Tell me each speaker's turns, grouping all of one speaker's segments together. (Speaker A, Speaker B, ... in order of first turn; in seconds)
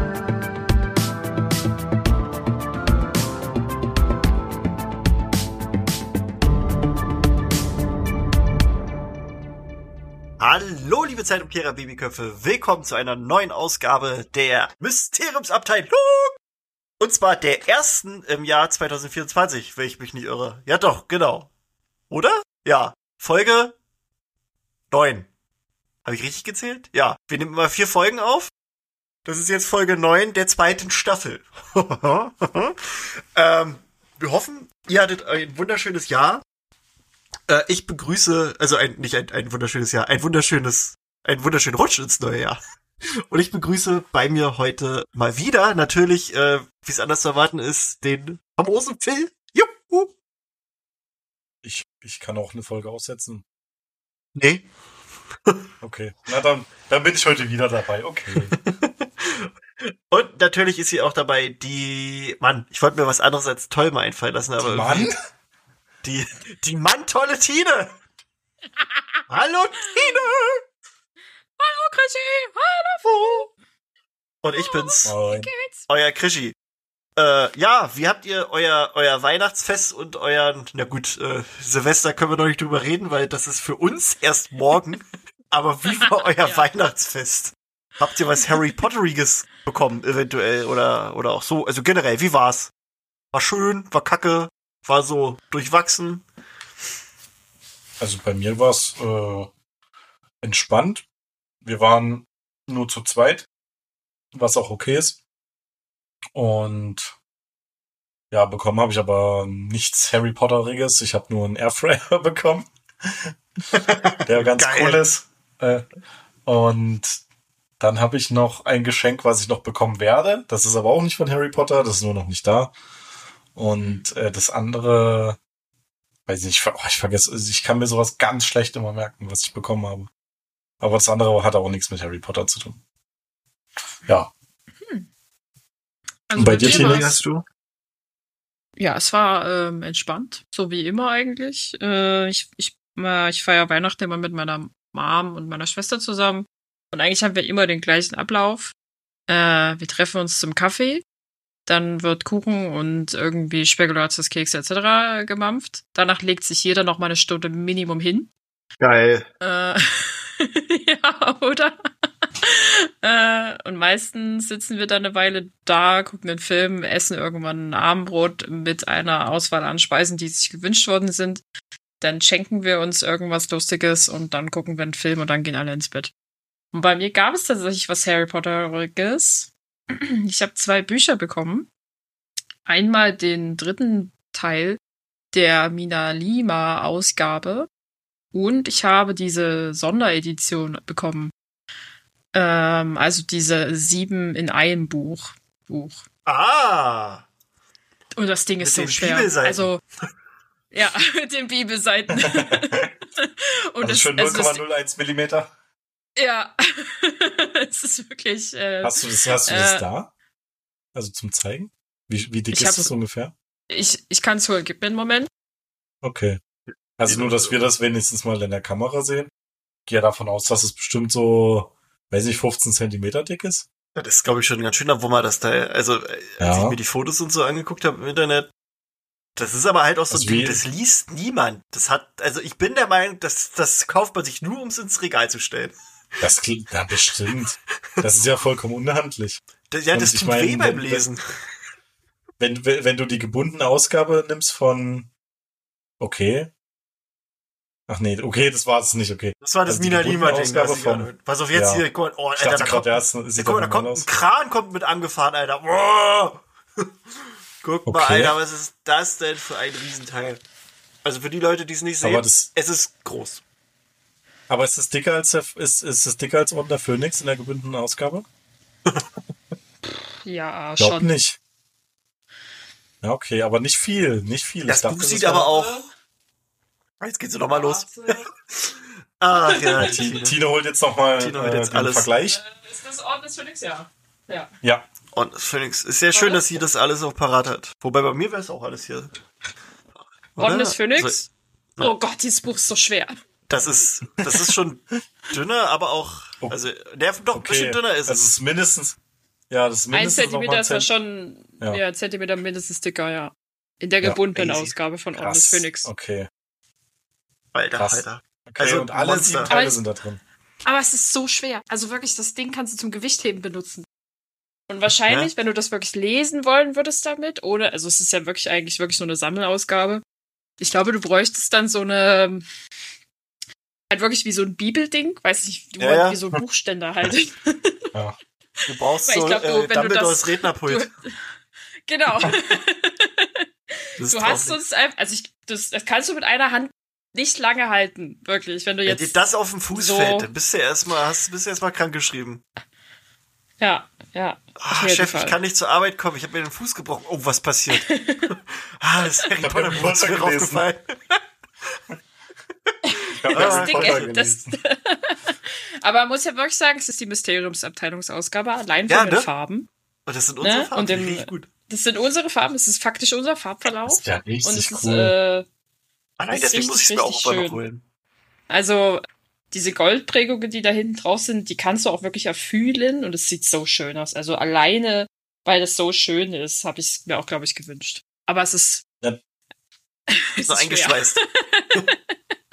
Speaker A: 10.4-16.4, 17.0-21.5, 22.1-23.8, 24.9-25.3, 26.1-28.5, 29.3-36.4, 37.5-42.6, 43.2-50.1, 54.4-54.6, 58.4-65.2, 66.0-68.0, 69.3-70.6, 73.0-73.5, 74.4-75.1, 75.9-76.5, 77.2-92.7, 93.3-96.2, 113.7-115.0, 136.6-137.4, 158.8-159.3, 196.3-197.3, 198.6-199.7, 217.0-217.6, 223.9-228.5, 229.4-235.8, 239.7-241.3, 249.4-256.9, 257.6-260.4, 261.0-263.4, 274.7-275.9, 277.0-280.4, 281.2-282.1, 285.1-289.2, 290.4-291.2, 293.5-298.3, 304.4-304.7, 307.5-309.5, 325.8-326.2, 328.7-330.9, 334.0-334.6, 338.9-342.4, 344.6-351.2, 353.3-354.2, 358.9-359.3, 360.1-361.5, 366.2-367.8, 380.4-381.2
Speaker B: 51.6-53.4, 55.8-58.6, 64.6-65.1, 75.1-75.5, 98.0-99.5, 100.4-101.0, 101.6-103.5, 104.3-105.2, 106.3-107.1, 108.3-113.3, 114.2-115.8, 116.5-117.2, 117.8-122.7, 123.5-125.4, 126.3-130.1, 130.8-132.8, 136.4-137.1, 202.2-202.9, 203.8-205.5, 208.8-210.1, 210.9-213.3, 216.0-216.4, 217.0-219.3, 219.9-223.7, 226.4-226.8, 230.1-230.6, 236.2-241.1, 242.4-245.1, 246.0-246.5, 247.9-251.9, 252.4-254.1, 257.9-258.4, 262.0-262.5, 264.5-268.3, 270.8-271.4, 273.0-275.5, 279.8-282.4, 284.6-284.9, 297.3-299.0, 299.5-300.9, 305.2-306.3, 307.8-310.2, 349.4-350.6, 353.2-354.6, 363.9-365.1
Speaker C: 68.8-69.2, 69.9-70.3, 71.6-73.5, 74.5-75.8, 136.3-137.2, 138.8-148.7, 149.3-151.0, 151.7-158.3, 159.4-161.8, 162.4-171.4, 172.0-176.1, 176.7-181.7, 182.7-184.8, 185.3-187.7, 188.3-191.3, 192.3-196.0, 198.2-199.8, 200.7-204.6, 206.2-209.9, 212.5-212.9, 213.7-215.3, 270.2-271.1, 275.5-275.8, 277.5-278.3, 279.3-279.9, 282.3-284.5, 286.1-286.4, 290.4-291.3, 291.8-293.1, 299.9-305.9, 309.5-309.8, 310.6-313.9, 314.7-320.0, 320.6-322.4, 323.9-327.8, 329.1-331.4, 331.9-339.2, 339.7-340.3, 343.6-345.4, 347.7-348.3, 352.9-359.7, 360.4-365.5, 366.3-367.6, 368.5-378.8, 380.1-382.1